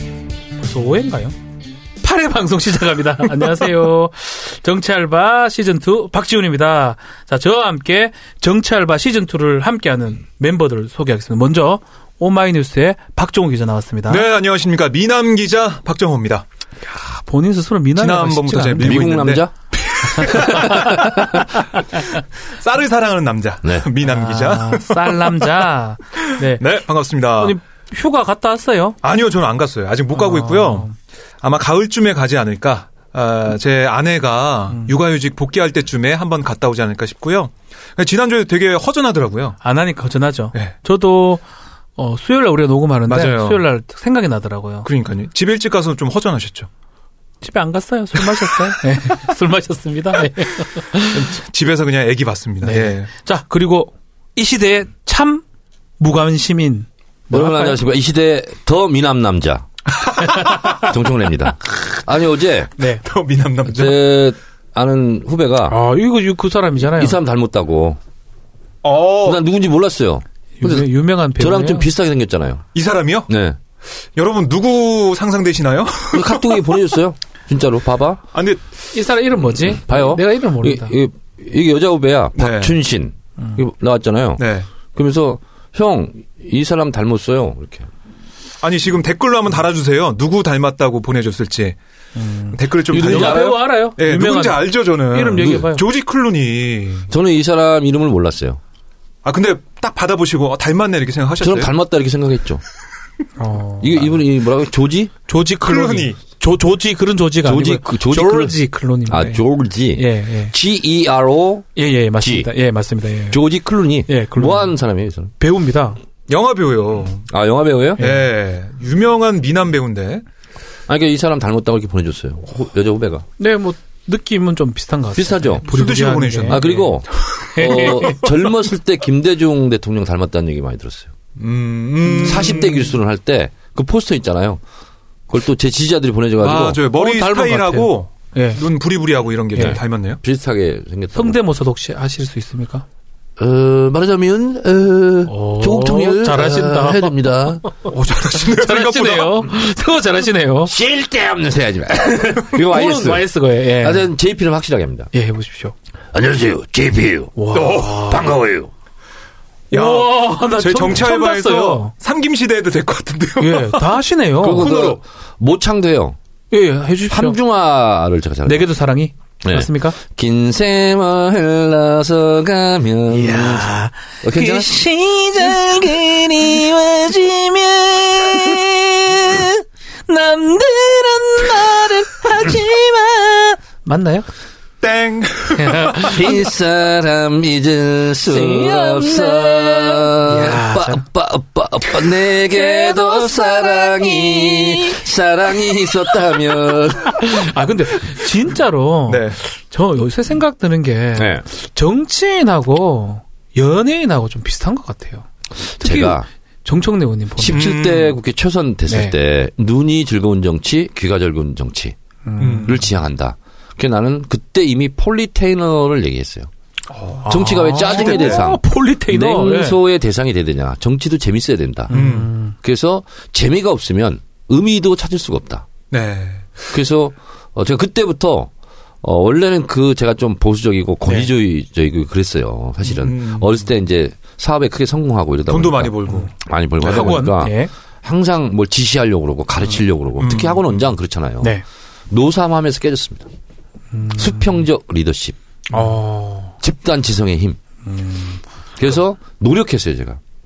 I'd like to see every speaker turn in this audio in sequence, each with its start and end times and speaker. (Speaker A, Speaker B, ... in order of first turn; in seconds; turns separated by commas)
Speaker A: 0.6-1.3, Speaker A: 2.0-14.3, Speaker B: 14.1-16.4, Speaker A: 16.9-19.1, Speaker B: 18.0-21.3, Speaker C: 18.8-19.5, Speaker A: 20.0-21.0, Speaker C: 20.1-21.6, Speaker B: 22.6-25.5, Speaker A: 24.0-26.6, Speaker B: 26.2-27.6, Speaker A: 27.4-29.0, Speaker B: 29.0-30.9, Speaker A: 30.1-30.9, Speaker B: 31.4-39.6, Speaker A: 39.6-41.4, Speaker A: 42.0-44.9, Speaker B: 43.1-43.6, Speaker B: 44.8-46.7, Speaker A: 47.4-51.2, Speaker B: 51.1-53.1, Speaker A: 52.6-55.4, Speaker A: 56.0-57.8, Speaker C: 57.3-59.7, Speaker B: 60.0-60.6, Speaker C: 60.7-62.7, Speaker B: 63.0-64.0, Speaker C: 63.6-65.8, Speaker A: 65.7-67.2, Speaker C: 66.8-68.0, Speaker B: 68.8-69.4, Speaker C: 69.2-72.6, Speaker A: 70.6-71.9, Speaker B: 72.7-73.3, Speaker C: 73.3-73.6, Speaker B: 74.2-76.6, Speaker C: 76.1-78.2, Speaker B: 78.3-78.6, Speaker A: 78.9-80.9, Speaker C: 79.6-87.9, Speaker B: 82.3-82.8, Speaker B: 84.4-84.7, Speaker B: 88.6-91.8, Speaker A: 92.2-95.8, Speaker B: 92.5-97.1, Speaker C: 92.9-93.6, Speaker C: 95.4-95.7, Speaker C: 97.1-98.6, Speaker B: 99.2-101.7, Speaker C: 101.4-102.6, Speaker A: 103.4-104.2, Speaker C: 103.8-105.1, Speaker A: 105.3-109.4, Speaker B: 105.6-106.2, Speaker C: 107.4-112.5, Speaker A: 109.9-110.5, Speaker A: 111.8-113.4, Speaker C: 113.3-115.3, Speaker A: 114.0-114.7, Speaker A: 115.4-116.0, Speaker B: 116.3-117.3, Speaker C: 117.3-118.0, Speaker B: 118.0-120.2, Speaker A: 118.0-118.2, Speaker C: 120.9-123.2, Speaker A: 123.4-126.8, Speaker C: 125.1-125.7, Speaker B: 125.7-128.1, Speaker C: 126.5-131.1, Speaker A: 127.3-128.3, Speaker B: 131.4-132.9, Speaker A: 132.1-132.5, Speaker C: 132.2-134.6, Speaker C: 135.3-136.8, Speaker B: 136.4-140.2, Speaker A: 136.9-138.6, Speaker A: 139.5-139.8, Speaker C: 139.6-141.4, Speaker A: 141.1-142.8, Speaker C: 143.4-147.7, Speaker A: 145.3-147.1, Speaker B: 147.8-149.5, Speaker A: 148.4-150.7, Speaker C: 150.7-155.1, Speaker A: 152.6-154.1, Speaker A: 155.1-155.7, Speaker C: 156.1-158.7, Speaker A: 157.3-158.3, Speaker B: 157.5-158.3, Speaker A: 159.7-161.9, Speaker B: 159.7-164.0, Speaker A: 163.4-164.7, Speaker C: 164.4-166.2, Speaker B: 164.5-165.0, Speaker A: 166.5-167.4, Speaker C: 167.1-168.7, Speaker A: 168.4-170.0, Speaker C: 169.4-173.7, Speaker A: 173.1-184.3, Speaker C: 174.2-176.8, Speaker B: 184.8-186.1, Speaker A: 185.6-186.4, Speaker C: 186.0-197.6, Speaker A: 188.2-191.0, Speaker A: 192.5-195.0, Speaker A: 195.6-196.1, Speaker A: 197.1-205.2, Speaker B: 199.1-199.4, Speaker C: 201.1-201.4, Speaker C: 205.8-206.2, Speaker A: 205.8-207.7, Speaker C: 207.4-211.9, Speaker B: 207.5-208.2, Speaker A: 208.9-209.1, Speaker A: 212.2-212.9, Speaker B: 212.4-212.8, Speaker C: 212.6-216.5, Speaker B: 216.9-218.5, Speaker A: 217.2-219.8, Speaker C: 217.2-222.0, Speaker A: 221.9-222.5, Speaker B: 221.9-222.3, Speaker C: 222.6-225.7, Speaker B: 225.9-226.7, Speaker C: 226.7-228.5, Speaker C: 229.0-241.6, Speaker B: 232.8-233.6, Speaker B: 235.5-237.3, Speaker A: 236.8-237.7, Speaker B: 239.7-240.7, Speaker C: 242.1-243.3, Speaker A: 243.9-244.5, Speaker C: 244.1-245.4, Speaker A: 245.7-246.6, Speaker C: 246.6-247.6, Speaker A: 247.8-248.4, Speaker C: 248.8-250.2